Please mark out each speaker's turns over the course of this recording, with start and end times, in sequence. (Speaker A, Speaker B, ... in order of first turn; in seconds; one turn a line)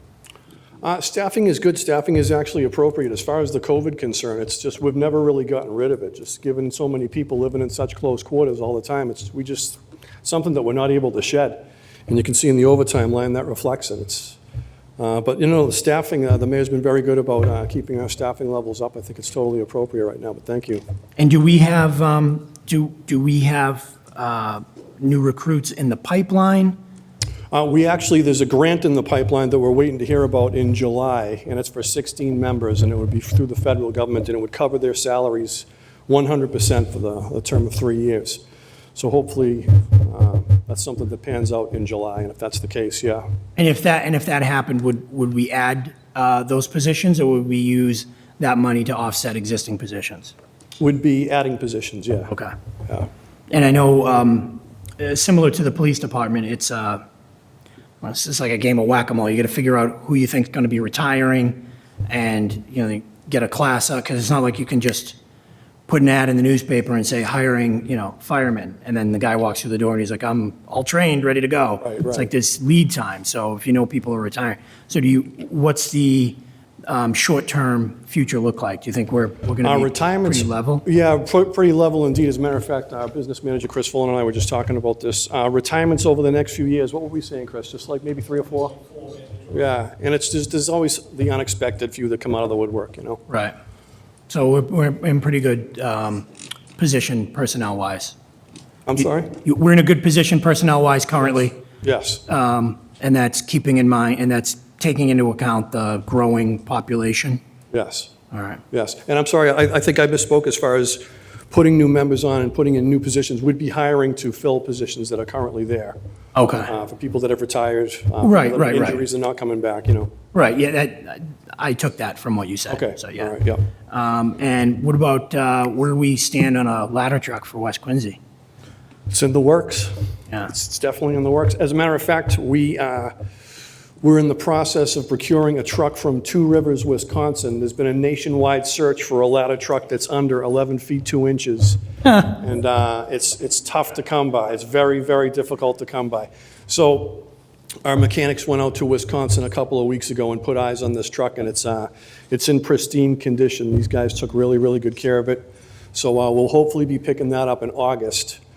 Speaker A: 0.8-14.4
Speaker A: 15.0-20.8
Speaker B: 21.2-26.8
Speaker A: 27.5-38.4
Speaker A: 39.0-43.3
Speaker B: 43.6-50.3
Speaker A: 50.8-52.3
Speaker B: 53.5-57.0
Speaker B: 58.0-65.2
Speaker B: 65.9-80.8
Speaker A: 71.8-72.3
Speaker A: 79.6-88.8
Speaker A: 89.5-93.2
Speaker B: 93.3-93.5
Speaker B: 94.3-98.2
Speaker A: 98.9-99.4
Speaker B: 99.4-101.6
Speaker A: 101.8-102.2
Speaker B: 102.3-107.4
Speaker A: 107.7-108.1
Speaker B: 108.3-108.6
Speaker A: 108.7-116.0
Speaker B: 116.3-116.7
Speaker A: 116.6-120.1
Speaker B: 118.2-119.0
Speaker B: 120.3-123.3
Speaker A: 122.7-123.7
Speaker B: 123.9-128.2
Speaker A: 129.1-133.1
Speaker A: 134.0-147.3
Speaker A: 147.8-158.4